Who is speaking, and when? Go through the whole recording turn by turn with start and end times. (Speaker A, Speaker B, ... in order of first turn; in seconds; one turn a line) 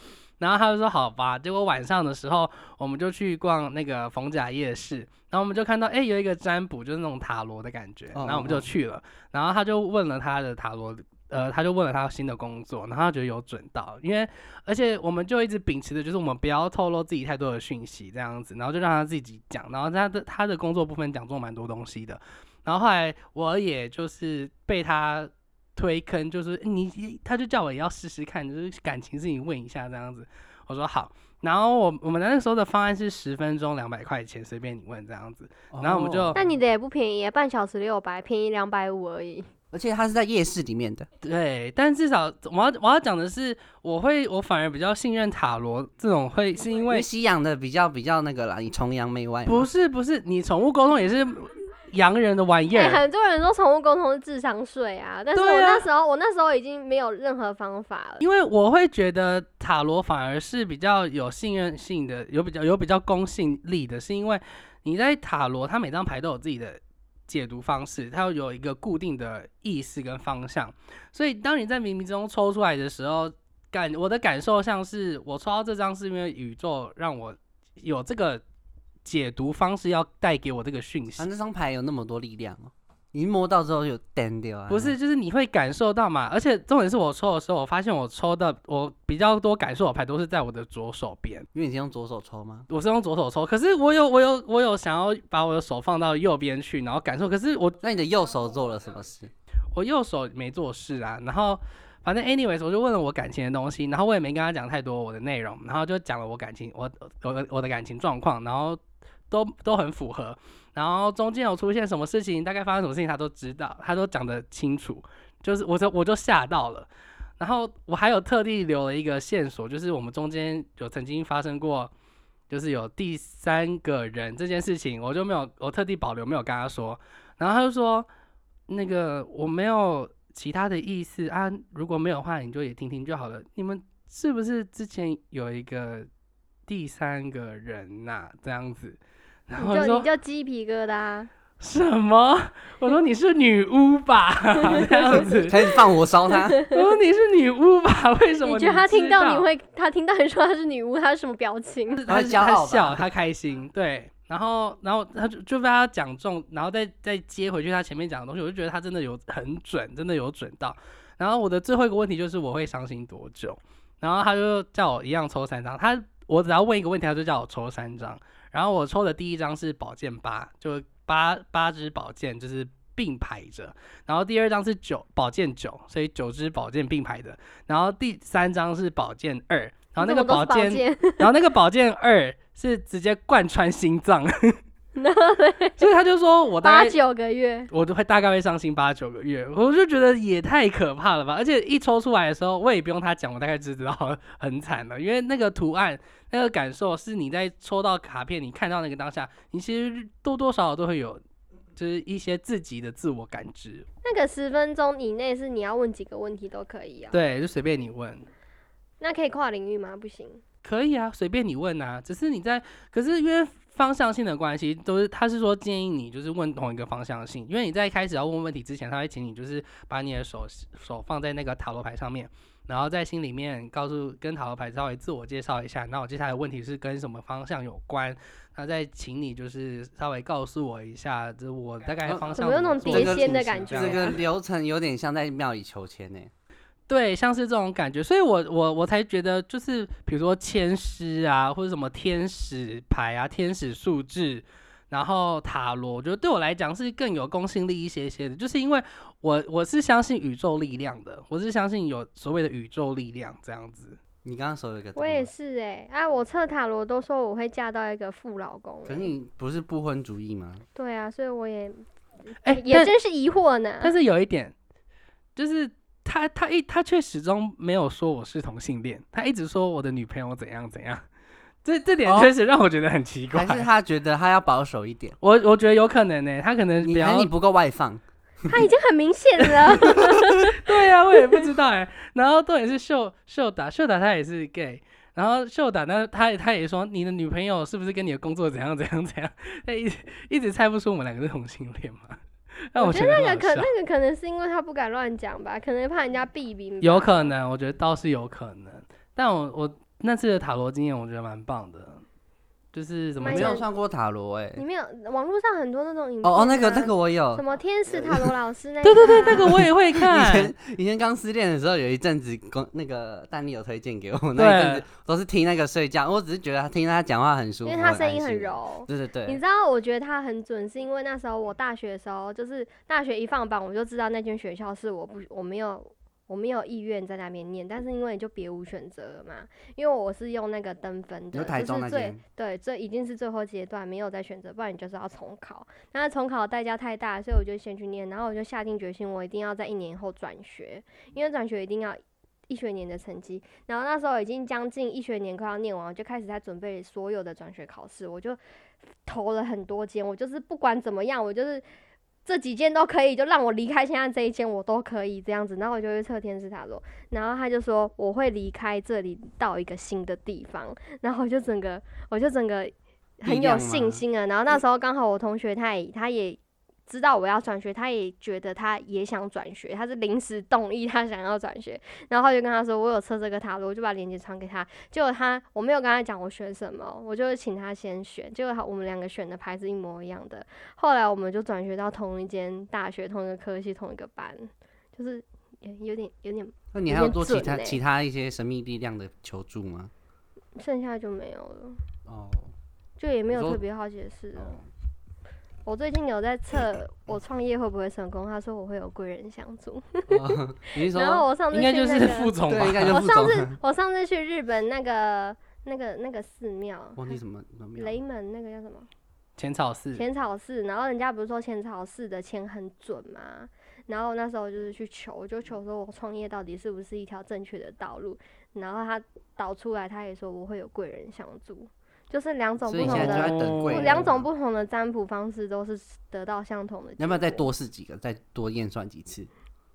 Speaker A: 0.4-36.4
Speaker B: 8.1-8.7
Speaker B: 35.7-36.5
Speaker C: 36.4-39.5
Speaker B: 39.7-41.1
Speaker A: 41.2-47.1
Speaker B: 46.9-49.7
Speaker A: 49.5-53.0
Speaker C: 52.7-58.2
Speaker A: 55.4-55.9
Speaker A: 58.2-78.4
Speaker A: 79.0-81.3
Speaker B: 81.2-85.0
Speaker A: 84.7-91.5
Speaker B: 91.5-92.7
Speaker A: 92.7-97.8
Speaker B: 97.8-99.3
Speaker A: 99.8-121.9
Speaker A: 122.5-128.1
Speaker A: 128.7-136.1
Speaker A: 136.7-140.1
Speaker C: 139.6-141.3
Speaker A: 141.6-145.6
Speaker C: 144.8-145.3
Speaker B: 145.2-146.6
Speaker C: 146.5-146.8
Speaker A: 146.6-149.5
Speaker C: 148.4-152.0
Speaker A: 152.0-184.6
Speaker B: 152.1-153.0
Speaker C: 180.0-181.3
Speaker C: 185.0-185.8
Speaker A: 185.8-187.0
Speaker C: 186.6-187.7
Speaker A: 187.7-201.2
Speaker A: 201.8-203.9
Speaker C: 204.0-207.2
Speaker A: 207.1-208.3
Speaker C: 209.0-210.4
Speaker A: 210.6-234.1
Speaker B: 232.1-236.3
Speaker C: 232.4-234.2
Speaker A: 236.9-254.0
Speaker B: 254.2-255.3
Speaker C: 255.0-259.1
Speaker B: 258.9-260.6
Speaker C: 260.8-261.9
Speaker A: 262.4-262.9
Speaker C: 262.4-263.9
Speaker A: 263.8-264.6
Speaker A: 265.4-271.1
Speaker A: 271.6-273.7
Speaker B: 272.1-272.3
Speaker B: 273.3-275.2
Speaker A: 275.2-277.3
Speaker B: 276.8-278.6
Speaker C: 278.5-280.6
Speaker A: 280.4-292.2
Speaker C: 281.1-281.5
Speaker A: 292.7-293.7
Speaker C: 292.8-297.3
Speaker A: 296.8-302.0
Speaker A: 302.7-303.6
Speaker C: 303.2-303.7
Speaker B: 303.2-304.6
Speaker C: 304.6-309.5
Speaker B: 306.2-308.4
Speaker A: 308.8-310.5
Speaker B: 309.2-319.4
Speaker A: 314.4-314.9
Speaker C: 317.6-348.4
Speaker B: 331.3-332.2
Speaker C: 349.1-351.6
Speaker C: 352.2-387.8
Speaker B: 363.2-364.0
Speaker B: 386.7-389.9
Speaker C: 390.6-391.8
Speaker B: 392.1-392.5
Speaker C: 393.0-394.6
Speaker B: 393.3-393.6
Speaker B: 394.4-394.7
Speaker C: 395.7-407.1
Speaker B: 400.1-401.3
Speaker A: 401.5-403.0
Speaker B: 402.5-403.6
Speaker B: 406.9-407.9
Speaker C: 407.8-408.9
Speaker A: 409.4-410.0
Speaker C: 410.0-427.5
Speaker B: 422.6-424.2
Speaker A: 422.8-424.1
Speaker B: 427.0-429.3